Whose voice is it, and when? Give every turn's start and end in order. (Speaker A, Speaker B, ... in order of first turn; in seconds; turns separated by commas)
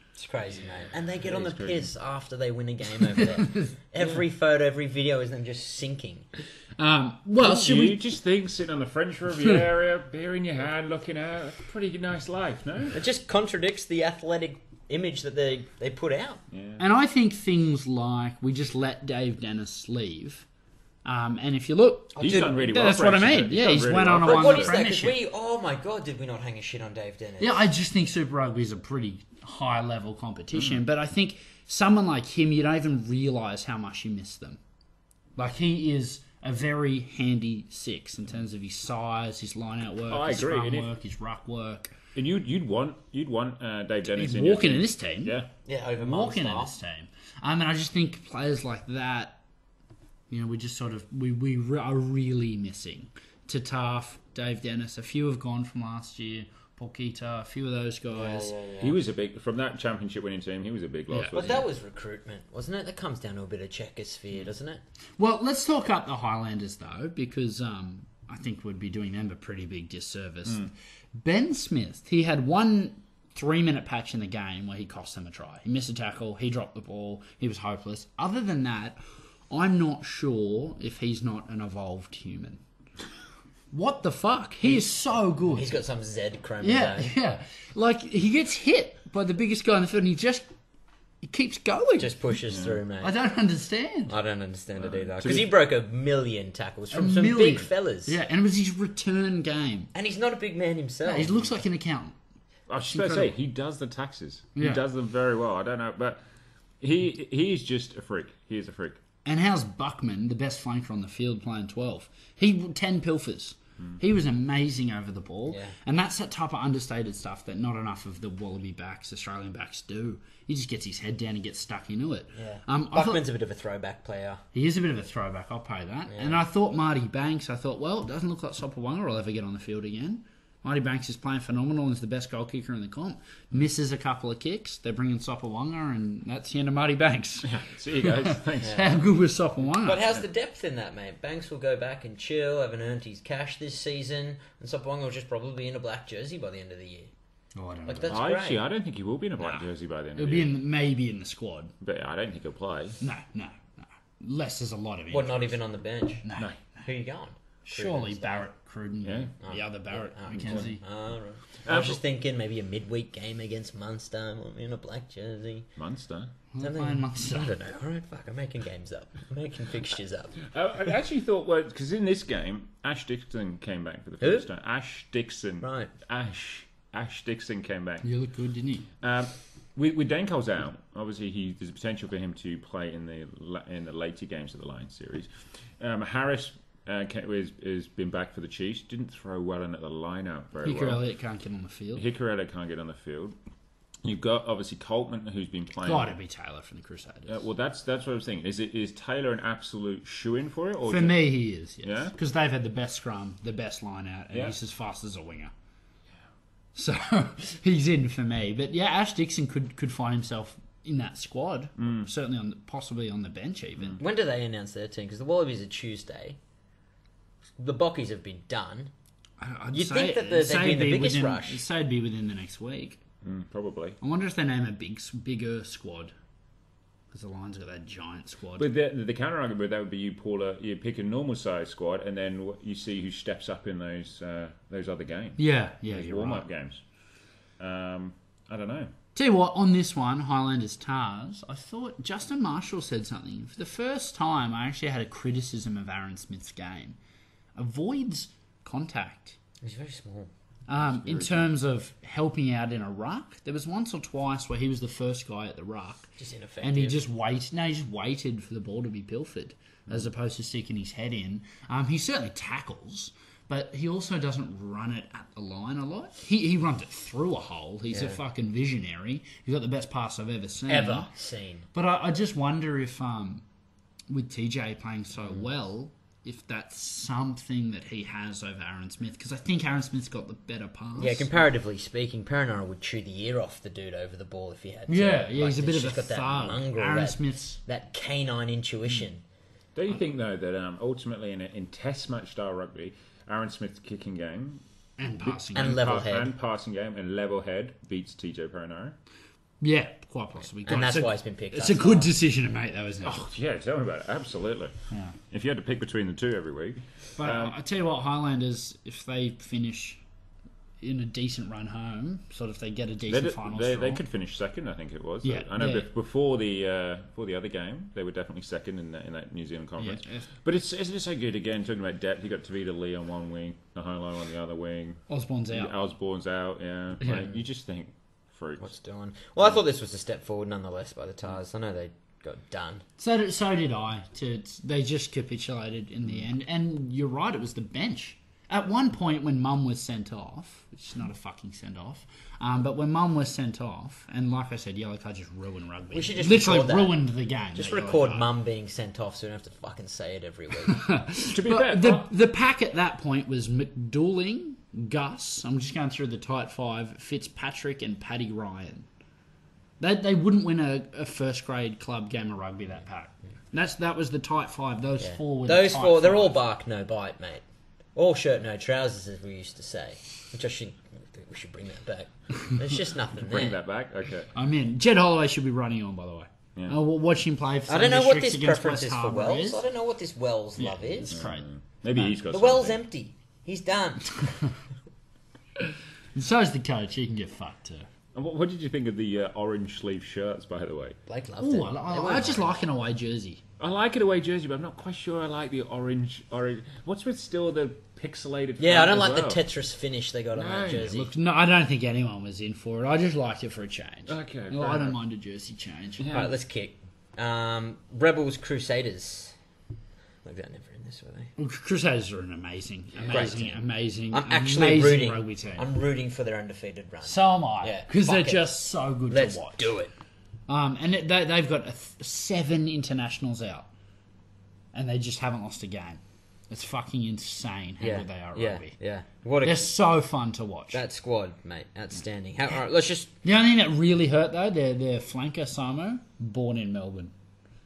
Speaker A: 0.1-6.3, Speaker B: 1.2-1.9, Speaker C: 3.4-3.7, Speaker C: 6.8-8.0, Speaker B: 7.4-13.0, Speaker A: 12.9-16.4, Speaker B: 16.5-16.8, Speaker C: 16.8-20.4, Speaker C: 21.0-25.2, Speaker A: 22.1-22.9, Speaker B: 22.2-24.8, Speaker A: 24.2-27.6, Speaker C: 27.4-34.6, Speaker C: 35.4-41.9, Speaker B: 40.1-40.9, Speaker B: 42.1-45.5, Speaker C: 44.1-45.4, Speaker A: 45.6-46.7, Speaker C: 46.0-49.4, Speaker C: 50.3-58.5, Speaker A: 58.1-59.0, Speaker B: 58.8-61.7, Speaker C: 61.1-61.6, Speaker A: 61.3-64.8, Speaker C: 65.2-82.6, Speaker C: 83.7-85.7, Speaker A: 84.6-87.1, Speaker C: 86.6-90.5, Speaker C: 91.2-92.2, Speaker A: 92.0-93.1, Speaker B: 92.5-92.8, Speaker C: 93.0-94.1, Speaker A: 94.1-98.2, Speaker B: 94.8-95.5, Speaker C: 96.9-99.9, Speaker A: 99.9-101.5, Speaker C: 101.0-102.1, Speaker B: 102.7-106.2, Speaker C: 102.9-103.3, Speaker C: 104.5-104.8, Speaker B: 106.8-109.0, Speaker C: 109.2-123.2, Speaker A: 115.5-115.7, Speaker A: 122.3-124.4, Speaker C: 124.5-140.1, Speaker A: 126.1-126.4, Speaker B: 137.4-138.8, Speaker A: 138.6-138.9, Speaker A: 139.8-147.1, Speaker C: 147.5-148.2, Speaker A: 147.8-148.6, Speaker B: 148.1-150.5, Speaker C: 149.4-149.6, Speaker C: 150.2-151.7, Speaker B: 151.8-153.0, Speaker C: 153.0-155.6, Speaker A: 155.1-156.2, Speaker C: 156.2-156.8, Speaker A: 156.8-158.4, Speaker C: 157.6-160.8, Speaker B: 159.0-159.3, Speaker A: 159.4-165.7, Speaker B: 160.4-160.7, Speaker B: 161.6-162.0, Speaker B: 165.8-166.3, Speaker C: 166.5-167.5, Speaker A: 166.6-170.4, Speaker B: 170.5-178.1, Speaker A: 175.6-175.9, Speaker C: 178.0-178.9, Speaker B: 179.0-185.3, Speaker B: 185.8-191.0, Speaker C: 190.6-192.0, Speaker B: 191.9-193.3, Speaker B: 194.0-196.1, Speaker C: 195.8-197.4, Speaker B: 197.3-201.3, Speaker C: 200.9-205.5, Speaker B: 201.8-202.1, Speaker C: 206.7-214.0, Speaker B: 211.8-212.1, Speaker A: 214.0-216.4, Speaker A: 217.6-218.9, Speaker C: 219.4-223.0, Speaker A: 219.7-221.6, Speaker B: 223.2-224.0, Speaker C: 224.0-226.1, Speaker C: 227.1-228.7, Speaker B: 228.6-236.8, Speaker C: 235.4-236.5, Speaker B: 237.6-238.9, Speaker C: 239.1-247.0, Speaker C: 247.5-249.4, Speaker A: 249.6-250.3, Speaker C: 250.7-256.1, Speaker B: 250.8-251.5, Speaker A: 256.2-257.0, Speaker C: 256.6-271.1, Speaker A: 267.9-268.2, Speaker A: 270.7-271.7, Speaker C: 271.7-273.4, Speaker C: 274.1-281.3, Speaker A: 281.0-289.2, Speaker C: 284.9-287.6, Speaker B: 289.8-294.6, Speaker C: 295.0-295.8, Speaker B: 295.2-298.9, Speaker A: 295.5-296.3, Speaker C: 299.6-303.2, Speaker A: 300.6-302.1, Speaker B: 303.0-304.7, Speaker C: 304.9-305.1, Speaker B: 305.3-307.6, Speaker C: 307.2-310.0, Speaker C: 310.8-314.0, Speaker B: 313.1-328.7, Speaker C: 315.2-315.9, Speaker C: 319.8-320.3, Speaker C: 325.1-325.7, Speaker C: 327.0-327.3, Speaker A: 328.6-332.8, Speaker C: 333.0-348.3, Speaker A: 345.9-350.8, Speaker C: 350.7-358.9, Speaker B: 351.3-352.1, Speaker C: 359.8-366.4, Speaker A: 365.0-367.4, Speaker A: 367.9-373.6, Speaker B: 373.2-374.3, Speaker C: 374.3-379.6, Speaker A: 377.7-381.2, Speaker C: 380.6-381.4, Speaker B: 381.1-382.8, Speaker A: 382.2-384.3, Speaker C: 386.1-387.9, Speaker B: 388.1-391.0, Speaker A: 391.1-392.6, Speaker C: 391.4-393.4, Speaker B: 393.6-399.4, Speaker A: 398.6-401.1, Speaker B: 400.3-400.9, Speaker C: 400.8-406.1, Speaker B: 404.1-404.9, Speaker B: 406.0-406.3, Speaker A: 406.1-409.3, Speaker A: 410.2-411.3, Speaker C: 411.4-415.7, Speaker A: 413.0-413.6, Speaker B: 413.1-413.4, Speaker A: 414.1-419.9, Speaker C: 417.0-419.7, Speaker C: 420.5-423.7, Speaker C: 424.7-428.7, Speaker A: 427.8-429.8, Speaker C: 429.4-430.8, Speaker A: 430.7-433.1, Speaker C: 433.2-437.1